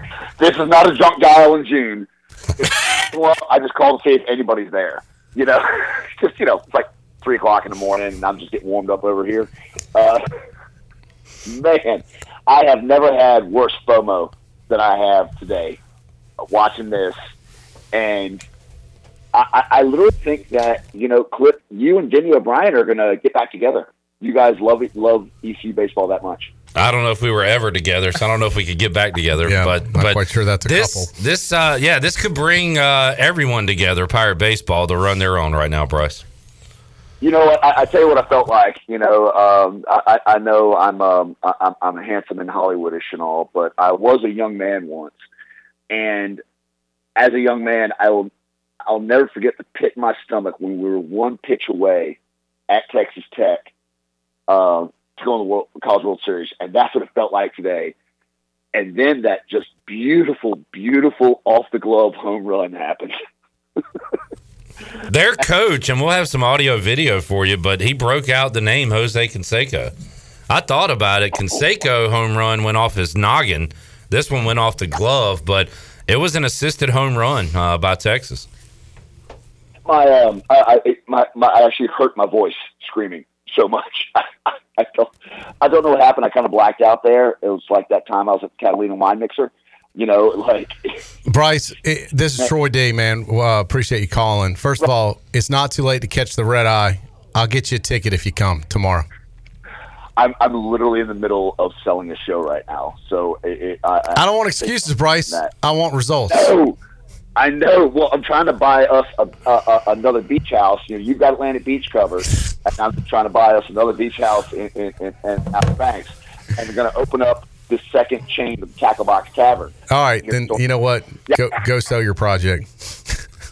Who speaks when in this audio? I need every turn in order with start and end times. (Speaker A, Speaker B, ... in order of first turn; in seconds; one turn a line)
Speaker A: 0.4-2.1
Speaker A: 2.6-10.2
Speaker A: 11.4-15.8
Speaker A: 16.4-17.1
Speaker A: 17.9-18.4
Speaker A: 19.3-26.5
Speaker B: 26.8-36.2
Speaker C: 29.4-31.1
Speaker A: 37.2-45.2
Speaker A: 45.9-46.4
Speaker A: 47.1-48.3
Speaker A: 48.9-52.2
Speaker A: 52.7-53.7
Speaker A: 54.5-57.9
Speaker A: 58.7-63.1
Speaker B: 65.1-69.9
Speaker B: 70.5-78.5
Speaker A: 79.8-90.8
Speaker C: 91.3-99.0
Speaker A: 100.2-105.5
Speaker C: 104.2-106.5
Speaker A: 106.3-106.8
Speaker A: 107.3-120.6
Speaker C: 119.9-122.7